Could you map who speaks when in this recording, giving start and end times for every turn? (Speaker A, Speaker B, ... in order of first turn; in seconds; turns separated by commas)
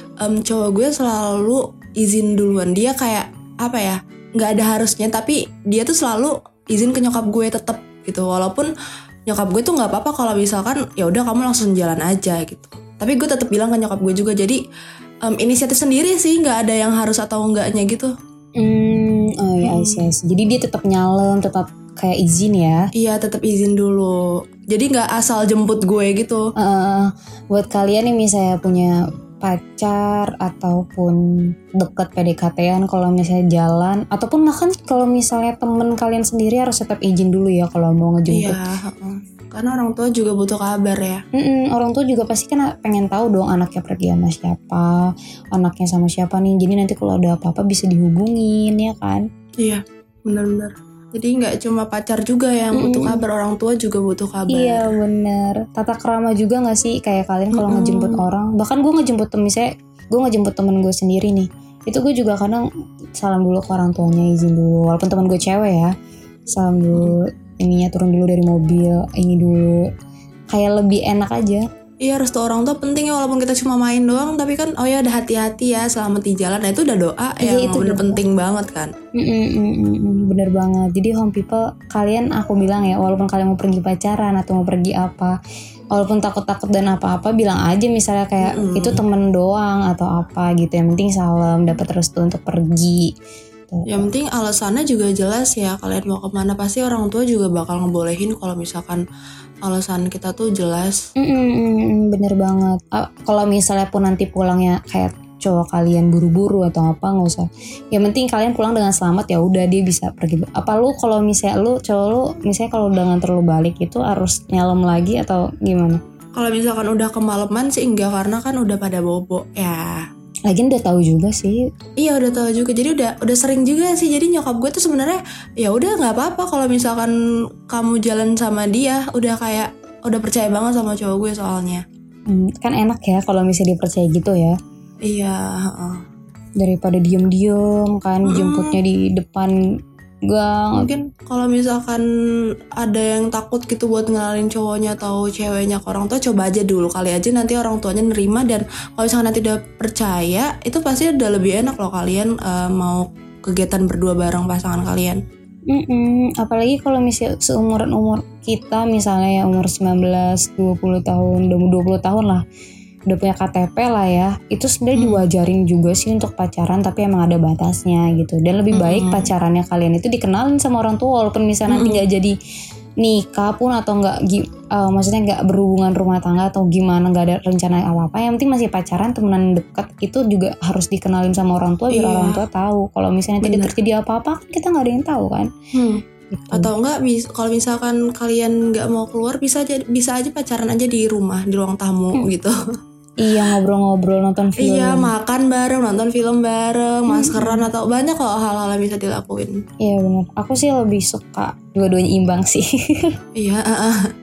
Speaker A: 0.2-8.7, Speaker A: 9.3-14.6, Speaker A: 15.3-18.1, Speaker B: 18.6-22.8, Speaker A: 19.6-20.1, Speaker A: 22.9-24.2, Speaker A: 24.7-26.4, Speaker B: 26.6-31.2, Speaker B: 31.8-38.6, Speaker A: 38.3-41.2, Speaker B: 41.4-44.9, Speaker B: 45.5-49.2, Speaker A: 49.6-54.9, Speaker B: 52.7-53.2, Speaker B: 54.5-62.6, Speaker A: 57.5-58.2, Speaker B: 63.2-65.9, Speaker B: 66.5-69.8, Speaker B: 70.5-71.6, Speaker A: 72.0-78.9, Speaker B: 77.4-78.2, Speaker B: 79.2-85.3, Speaker B: 85.9-93.1, Speaker A: 88.4-89.0, Speaker B: 93.7-94.1, Speaker A: 93.9-99.0, Speaker A: 99.6-101.0, Speaker B: 101.2-116.0, Speaker A: 116.3-120.0, Speaker B: 120.5-121.6, Speaker A: 122.0-127.1, Speaker A: 127.7-131.8, Speaker B: 132.3-134.6, Speaker A: 135.0-136.0, Speaker B: 136.6-139.5, Speaker A: 138.3-138.8, Speaker B: 140.3-140.9, Speaker A: 140.7-142.0, Speaker A: 142.8-155.2, Speaker B: 155.7-162.4, Speaker B: 163.1-172.3, Speaker A: 164.9-165.2, Speaker A: 168.7-169.3, Speaker A: 171.7-172.0, Speaker B: 173.0-185.5, Speaker A: 181.9-182.4, Speaker A: 183.4-183.7, Speaker A: 185.7-192.5, Speaker B: 186.3-186.7, Speaker B: 193.2-195.1, Speaker A: 194.6-199.6, Speaker B: 197.1-197.7, Speaker B: 199.8-203.0, Speaker A: 203.3-204.0